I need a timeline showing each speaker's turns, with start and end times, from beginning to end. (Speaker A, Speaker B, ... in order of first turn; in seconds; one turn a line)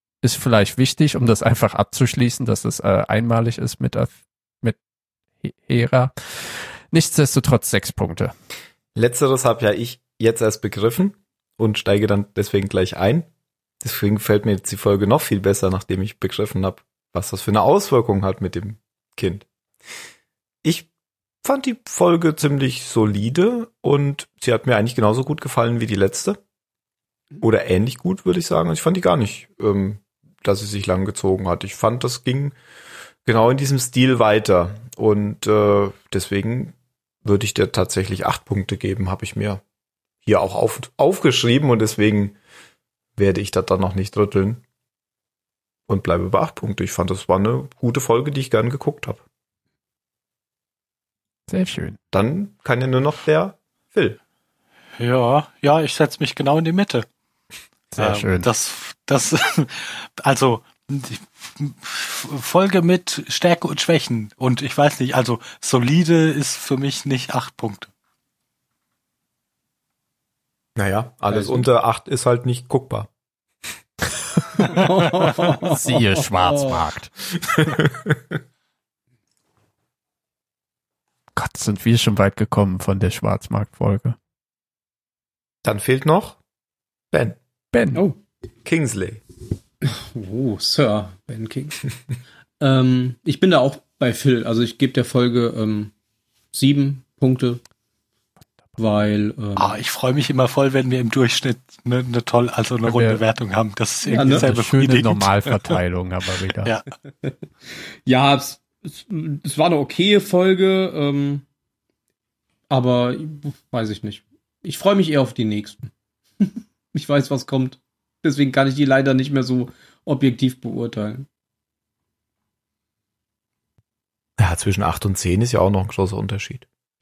Speaker A: 0.2-4.8
Speaker A: 5.4-8.3
Speaker B: 8.9-13.3
Speaker B: 13.8-19.5
Speaker B: 21.4-26.4
Speaker B: 27.4-32.5
Speaker B: 33.2-39.6
Speaker B: 40.2-42.4
Speaker B: 43.2-44.6
Speaker B: 45.9-49.2
Speaker A: 51.5-52.0
Speaker B: 52.1-54.2
Speaker C: 55.0-57.1
Speaker A: 57.9-58.5
Speaker C: 58.0-67.9
Speaker B: 70.8-73.1
Speaker D: 71.3-71.7
Speaker D: 74.6-76.8
Speaker A: 75.5-77.1
Speaker B: 77.5-78.2
Speaker A: 81.3-84.2
Speaker B: 85.6-86.4
Speaker B: 87.1-87.4
Speaker A: 87.7-88.0
Speaker B: 88.7-89.2
Speaker D: 89.8-91.8
Speaker D: 92.6-95.9
Speaker D: 96.5-97.6
Speaker D: 98.8-99.8
Speaker C: 99.6-105.8
Speaker A: 102.9-103.2
Speaker D: 104.0-104.5
Speaker A: 104.2-106.7
Speaker D: 107.2-111.5
Speaker D: 112.7-115.9
Speaker D: 116.4-121.3
Speaker B: 124.4-126.7